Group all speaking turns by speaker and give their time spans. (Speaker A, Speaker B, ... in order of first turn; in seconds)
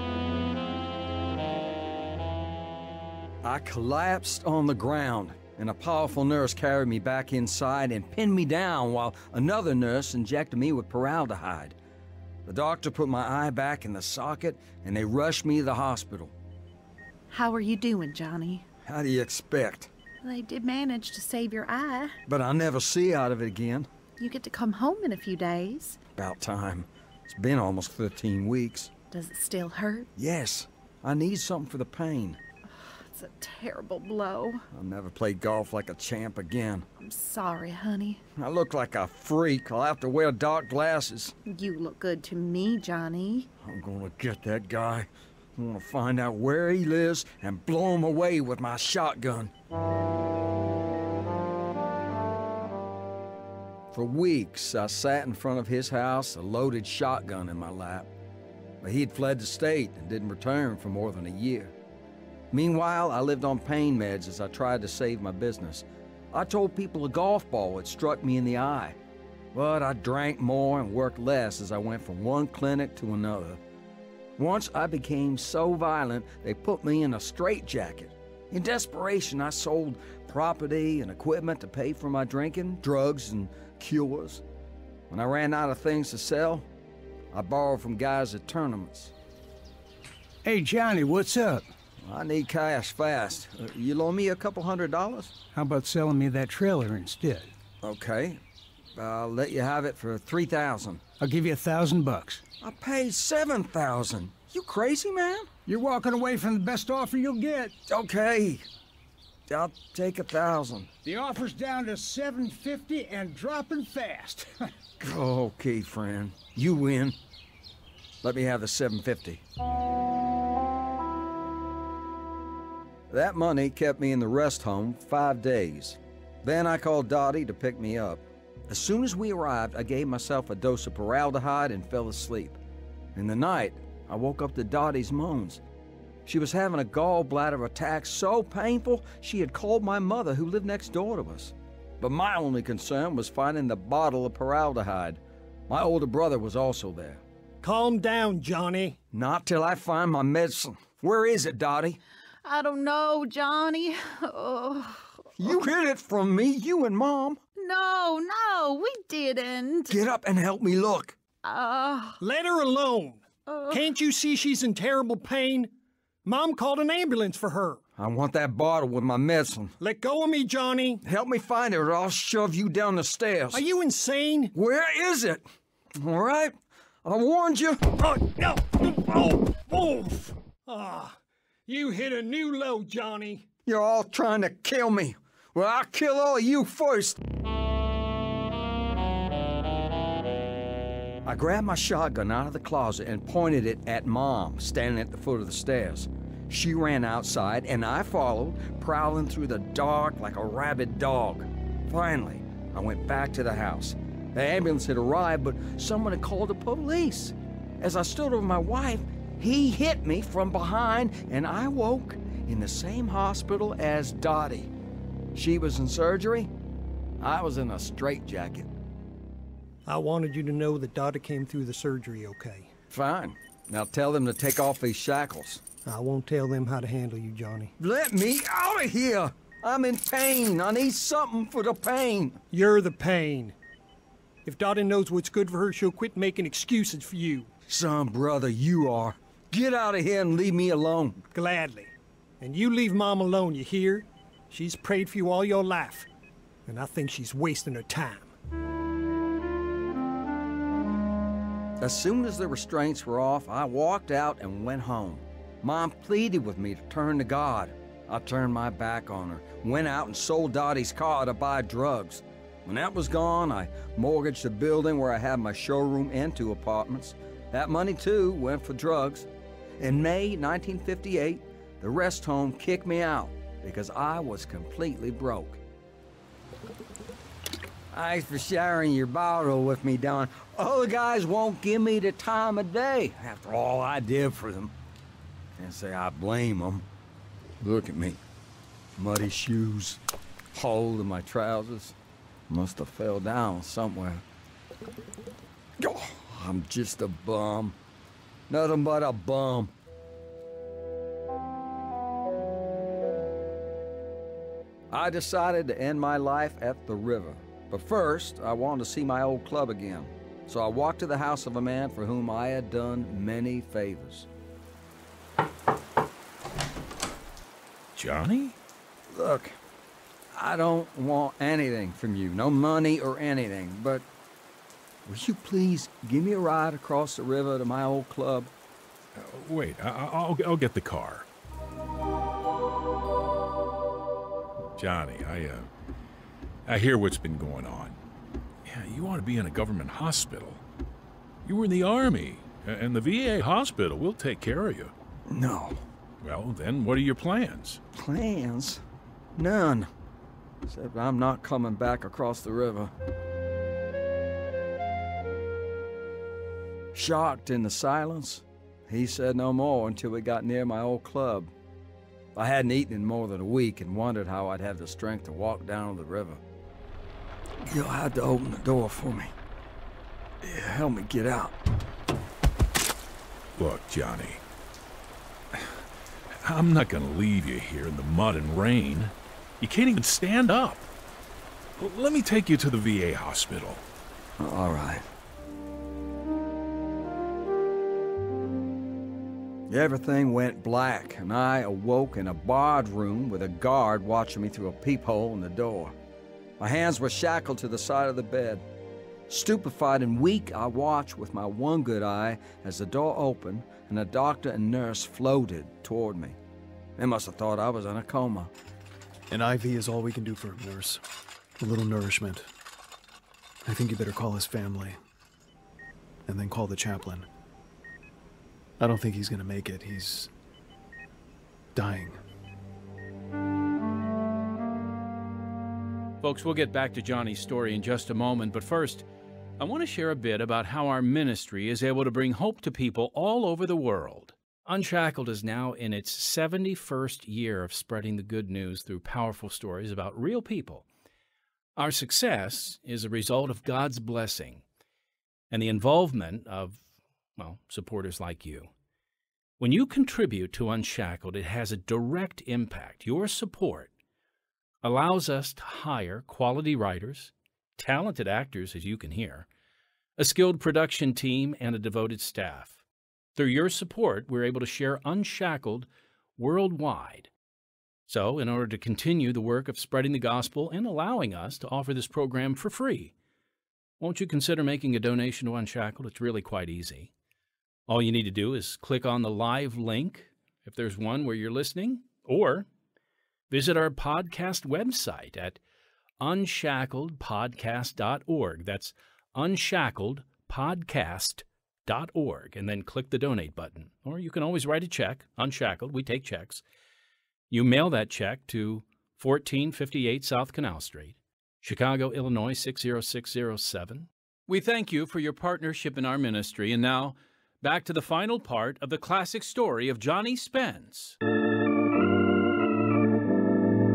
Speaker A: 3.4-11.8, 12.4-16.3, 18.8-19.9, 22.2-23.9, 26.1-28.9, 30.2-32.4, 34.7-36.9, 38.4-41.4, 43.6-49.5, 53.9-58.1, 58.8-61.7, 62.5-69.0, 69.5-73.6, 74.4-84.4, 85.1-86.7, 87.3-89.1, 92.0-95.3, 97.8-98.4, 99.0-101.0, 102.6-105.5, 107.9-108.6, 109.5-110.9, 115.0-117.2, 118.2-119.4, 123.1-132.6, 133.1-135.6, 136.2-147.2, 149.1-152.0, 155.4-157.4, 159.9-161.2, 168.0-169.7, 171.0-173.6, 174.5-175.4, 175.9-178.0, 183.7-187.2, 191.2-214.7, 215.3-216.5, 217.2-218.7, 222.9-225.6, 227.8-232.4, 237.7-241.3, 251.8-269.3, 269.8-275.6, 277.9-284.7, 285.6-286.9, 287.6-288.2, 289.0-290.0, 290.5-291.9, 292.5-294.2, 295.8-297.8, 298.5-299.7, 304.9-314.3, 319.1-319.6, 320.3-324.1, 325.1-328.5, 345.3-345.8, 347.9-348.8, 349.4-349.9, 350.6-352.9, 356.9-361.5, 362.3-366.4, 367.7-369.3, 370.4-371.6, 384.4-385.1, 389.7-395.9, 396.6-398.6, 399.3-406.4, 407.0-408.5
Speaker B: 17.3-18.6, 20.2-22.2, 24.2-26.0, 29.1-30.1, 32.7-34.6, 37.0-38.2, 41.4-43.5, 152.4-155.5, 157.6-160.0, 161.4-162.2, 163.5-163.9
Speaker C: 90.4-91.7, 95.5-97.5, 101.2-102.4, 105.7-107.7, 111.0-114.5
Speaker D: 147.6-149.0, 162.2-165.7, 166.2-167.8, 169.8-171.0, 173.5-174.5, 178.0-183.4, 219.8-222.7, 225.8-227.7, 232.5-233.5, 234.4-237.5, 241.3-246.1, 246.7-248.3
Speaker E: 318.0-318.5, 329.1-331.2, 334.8-335.7, 336.6-338.0, 338.6-340.6, 341.4-344.9, 346.2-347.8, 373.5-374.4, 375.5-375.8, 376.4-380.9, 381.8-383.8
Speaker F: 409.3-411.0, 411.6-412.5, 413.6-415.0, 416.2-417.3, 418.8-420.3, 421.7-422.2
Speaker G: 426.2-429.1, 429.6-440.8, 441.8-444.6, 445.5-446.8, 447.4-448.7, 449.6-453.9, 454.8-459.5, 460.2-462.8, 463.4-467.3, 468.1-473.1, 474.0-477.1, 477.9-482.6, 483.5-485.6, 486.2-496.6, 497.5-511.2